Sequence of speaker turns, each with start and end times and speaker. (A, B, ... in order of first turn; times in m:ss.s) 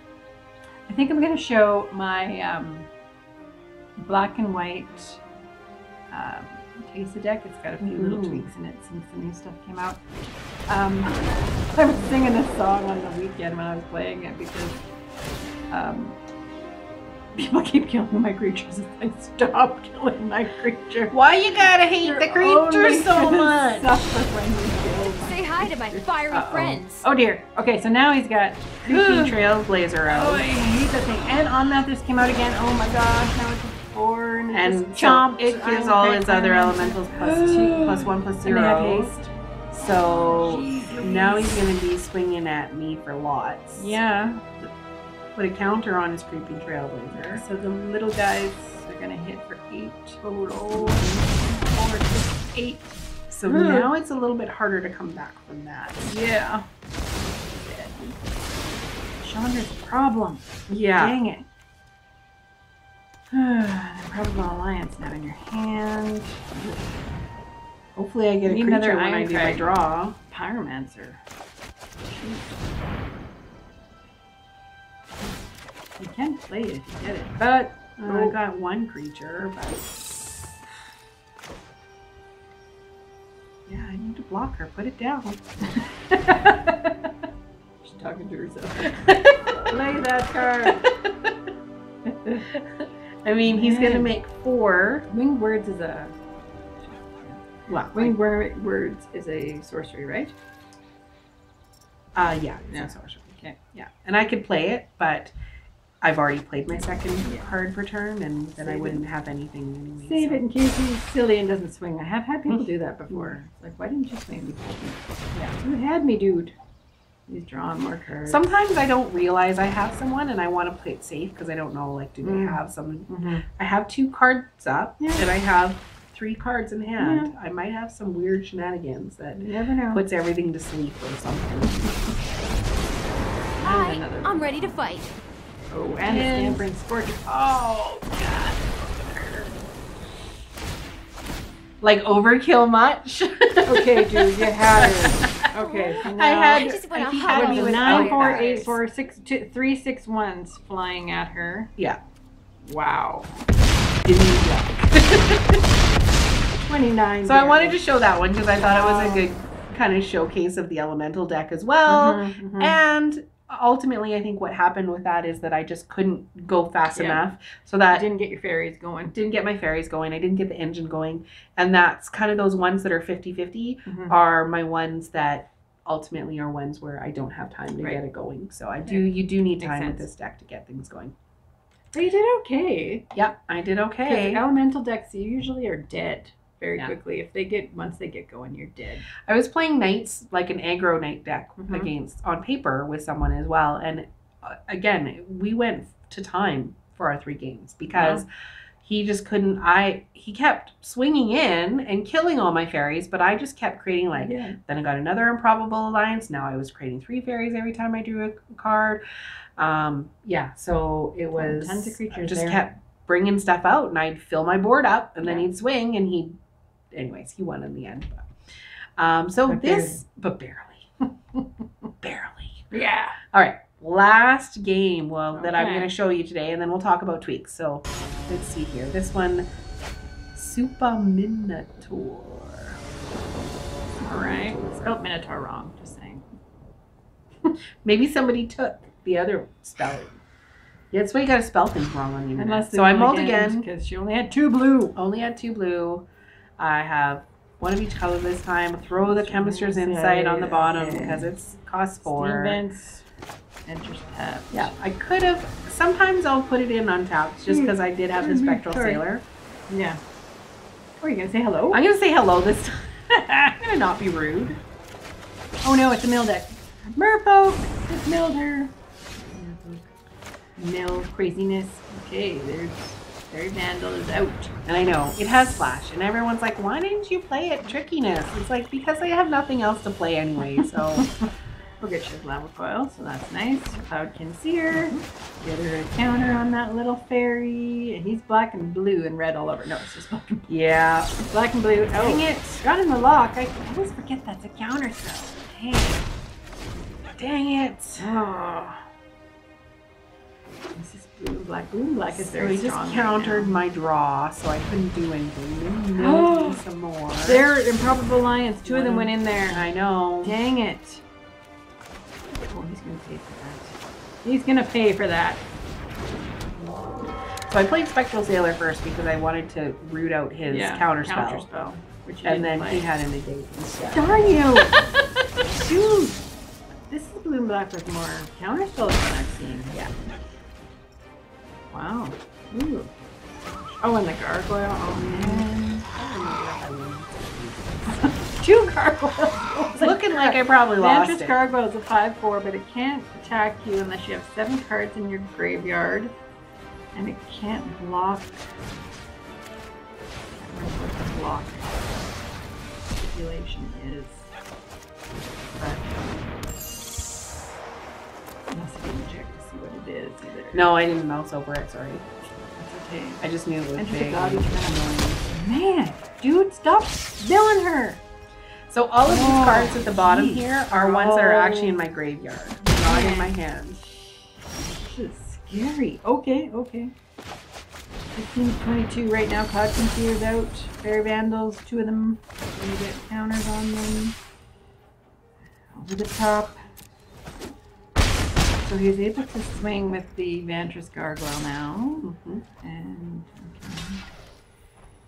0:00.9-0:02.9 A
0:04.0-0:05.2 A
0:06.1-0:10.0 A
0:07.8-0:08.5 B
0:10.7-0:14.8 A
0:15.7-0:16.2 A
0:17.3-0:21.1 A
0:21.1-0:24.0 B
0:22.0-0:26.1 A
0:25.1-0:27.0 C
0:26.3-0:26.8 B
0:26.9-0:29.4 A
0:28.8-0:30.4 B
0:30.1-0:39.3 A
0:34.5-0:39.1 B
0:39.7-0:44.0 B
0:40.0-0:41.6 A
0:43.8-0:44.7 A
0:45.3-0:47.4 B
0:47.1-0:53.9 A
0:50.4-0:51.4 B
0:53.3-0:56.2 B
0:56.0-0:56.6 A
0:57.5-0:58.2 A
0:59.2-1:01.4 A
1:00.7-1:01.2 B
1:03.3-1:07.0 A
1:08.0-1:10.2 B
1:08.4-1:11.2 A
1:12.0-1:12.7 A
1:16.0-1:18.4 A
1:18.0-1:20.5 B
1:23.7-1:25.4 B
1:25.6-1:27.1 A
1:27.8-1:28.9 A
1:29.0-1:29.7 B
1:29.6-1:30.9 A
1:30.6-1:31.3 B
1:32.0-1:32.5 A
1:32.5-1:35.1 B
1:33.4-1:34.1 A
1:35.1-1:36.1 A
1:36.8-1:40.3 A
1:37.7-1:38.2 B
1:42.1-1:45.3 B
1:42.7-1:43.6 A
1:46.0-1:50.4 B
1:47.2-1:47.5 A
1:48.6-1:49.0 A
1:50.0-1:56.5 A
1:52.5-1:53.4 B
1:57.3-1:58.4 A
1:58.2-2:12.3 B
2:02.2-2:03.4 A
2:05.0-2:05.3 A
2:07.0-2:07.3 A
2:09.4-2:10.0 A
2:13.6-2:14.7 A
2:13.6-2:15.1 C
2:15.7-2:19.5 A
2:16.0-2:16.6 B
2:21.8-2:28.8 B
2:23.6-2:31.7 A
2:25.5-2:28.7 C
2:32.6-2:33.3 A
2:34.0-2:35.6 B
2:36.6-2:37.8 A
2:37.2-2:48.0 B
2:38.6-2:39.3 A
2:41.8-2:42.8 A
2:46.9-2:47.2 A
2:47.9-2:49.2 A
2:49.1-3:01.1 B
2:53.8-2:54.2 A
2:58.8-3:00.1 A
3:01.9-3:03.1 A
3:03.1-3:04.4 B
3:04.0-3:09.1 A
3:09.2-3:18.2 B
3:11.6-3:11.9 A
3:17.9-3:18.2 A
3:18.8-3:29.0 B
3:24.1-3:24.6 A
3:29.6-3:36.4 B
3:31.3-3:32.6 A
3:36.9-3:38.3 B
3:39.0-3:40.9 B
3:39.5-3:40.0 A
3:42.0-3:42.7 B
3:42.7-3:43.2 A
3:43.3-3:49.5 B
3:45.3-3:45.9 A
3:50.3-3:52.8 B
3:54.0-3:56.2 A
3:54.0-3:55.0 B
3:57.8-4:00.2 B
4:00.9-4:03.6 B
4:02.4-4:05.0 A
4:05.0-4:06.0 B
4:06.6-4:12.6 B
4:09.0-4:11.3 A
4:12.0-4:13.0 A
4:13.6-4:14.7 A
4:14.5-4:19.2 B
4:17.5-4:19.0 A
4:19.7-4:20.0 A
4:21.0-4:21.8 A
4:21.7-4:22.9 B
4:23.1-4:23.5 A
4:23.6-4:24.6 B
4:25.6-4:29.9 A
4:30.6-4:34.5 A
4:34.6-4:41.0 B
4:40.4-4:41.3 A
4:41.8-4:50.5 A
4:44.7-4:45.0 B
4:50.5-4:51.2 B
4:51.3-4:52.2 A
4:51.9-4:53.8 B
4:53.6-4:56.0 A
4:57.2-4:58.1 B
4:58.0-4:58.8 A
5:00.7-5:03.6 A
5:02.1-5:07.4 B
5:06.0-5:06.6 A
5:07.2-5:09.7 A
5:08.6-5:10.4 B
5:10.2-5:11.0 A
5:12.4-5:15.4 A
5:17.5-5:21.5 B
5:20.5-5:22.9 A
5:22.2-5:24.2 B
5:23.9-5:24.8 A
5:25.4-5:26.2 A
5:26.9-5:29.8 A
5:31.7-5:35.8 A
5:34.8-5:38.1 B
5:38.3-5:46.1 A
5:39.7-5:41.3 B
5:46.9-5:48.4 A
5:50.3-5:52.2 A
5:52.9-5:54.3 A
5:55.6-5:55.9 A
5:58.5-6:00.7 A
6:00.5-6:02.0 B
6:02.6-6:08.0 A
6:03.2-6:05.2 B
6:08.7-6:13.8 B
6:09.0-6:11.8 A
6:12.6-6:13.4 A
6:14.1-6:16.9 A
6:18.1-6:24.2 A
6:25.7-6:26.6 A
6:28.6-6:32.1 A
6:32.0-6:32.4 B
6:32.6-6:34.0 A